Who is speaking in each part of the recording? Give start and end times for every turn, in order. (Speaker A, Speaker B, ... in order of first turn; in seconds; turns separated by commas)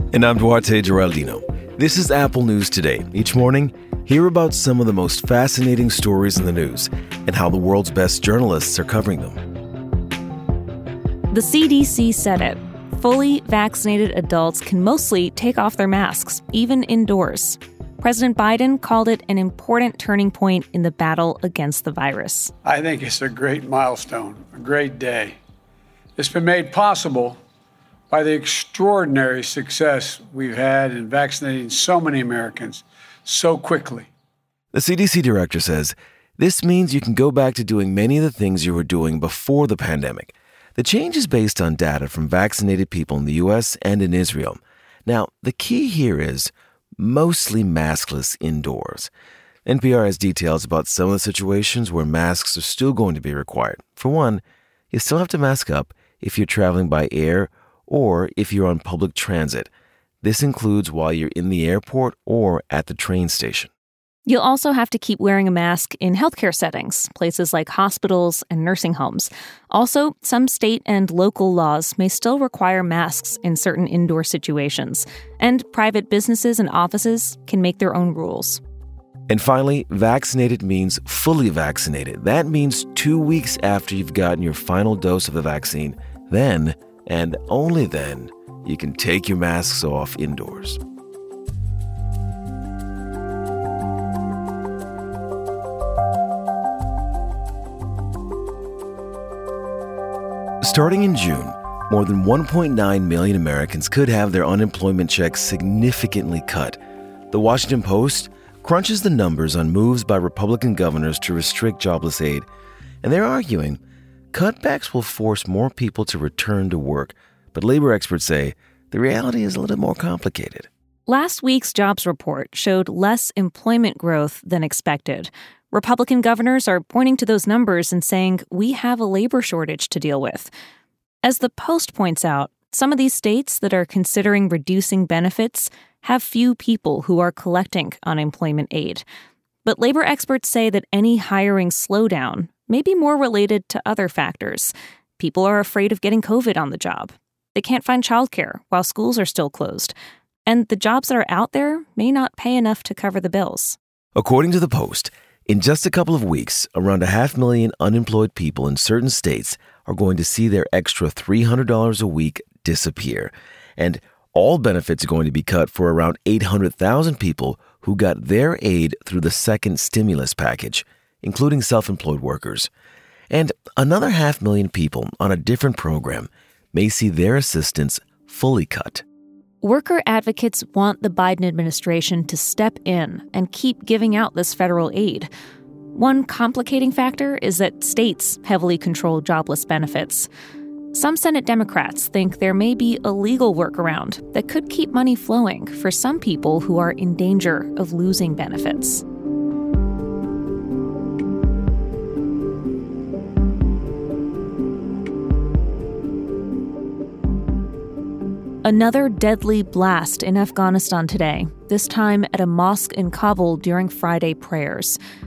Speaker A: 0.1-9.4, Speaker B: 11.3-22.5, Speaker C: 22.6-25.4, Speaker C: 26.2-27.4, Speaker C: 28.1-34.1, Speaker A: 34.7-49.1, Speaker A: 49.6-59.7, Speaker A: 60.2-63.7, Speaker B: 64.2-78.6, Speaker A: 79.3-90.8, Speaker A: 100.6-106.8, Speaker A: 107.3-112.5, Speaker A: 113.0-113.8, Speaker A: 114.3-120.7, Speaker B: 121.1-130.5, Speaker B: 131.2-139.0, Speaker B: 139.6-149.9, Speaker B: 150.4-153.8, Speaker A: 154.2-172.7, Speaker A: 173.3-179.0, Speaker B: 179.6-185.3, Speaker B: 185.9-190.3, Speaker B: 190.9-199.0, Speaker B: 208.6-215.0